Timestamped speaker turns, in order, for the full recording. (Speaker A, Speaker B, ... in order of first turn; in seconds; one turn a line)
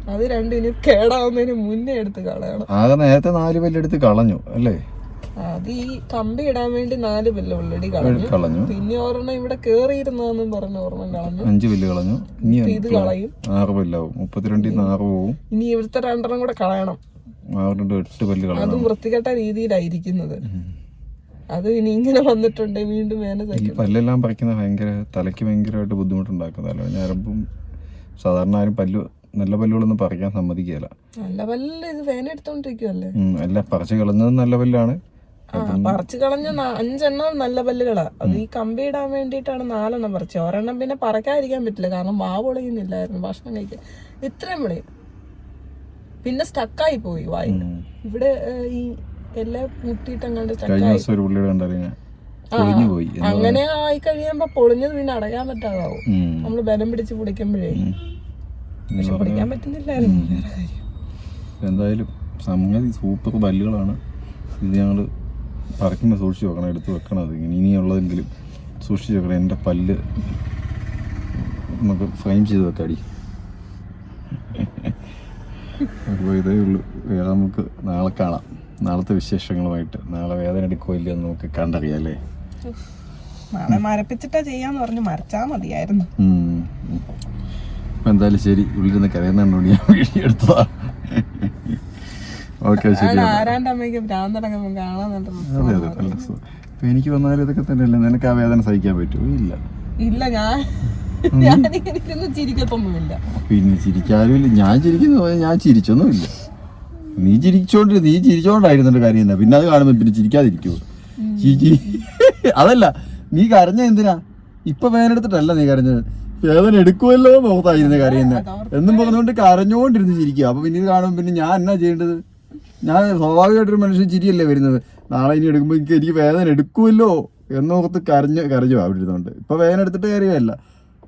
Speaker A: 0.1-2.7
Speaker B: 2.7-4.8
Speaker A: 5.4-11.5
Speaker B: 8.0-8.7
Speaker B: 11.1-15.4
Speaker A: 12.4-13.3
Speaker A: 14.6-14.9
Speaker A: 15.5-17.0
Speaker B: 17.6-18.9
Speaker A: 18.6-20.4
Speaker A: 21.5-23.9
Speaker B: 23.5-27.4
Speaker B: 28.2-30.9
Speaker A: 31.2-33.2
Speaker B: 33.2-35.0
Speaker A: 35.5-44.8
Speaker B: 35.5-36.0
Speaker A: 46.2-51.1
Speaker B: 47.5-47.8
Speaker B: 50.7-52.0
Speaker A: 52.5-57.8
Speaker B: 52.5-53.6
Speaker B: 56.1-56.5
Speaker B: 57.7-58.0
Speaker B: 58.9-60.4
Speaker A: 59.0-60.8
Speaker B: 61.6-64.0
Speaker B: 64.6-65.1
Speaker B: 65.8-68.3
Speaker B: 68.8-70.0
Speaker B: 71.3-73.0
Speaker B: 74.5-75.0
Speaker B: 76.0-82.2
Speaker A: 83.5-86.1
Speaker B: 86.2-87.1
Speaker B: 88.0-93.5
Speaker A: 92.8-96.3
Speaker B: 95.5-99.6
Speaker A: 100.0-103.2
Speaker B: 101.3-101.7
Speaker B: 103.3-106.3
Speaker B: 107.2-110.8
Speaker A: 111.2-112.1
Speaker B: 111.4-122.2
Speaker A: 117.8-119.2
Speaker B: 122.8-130.6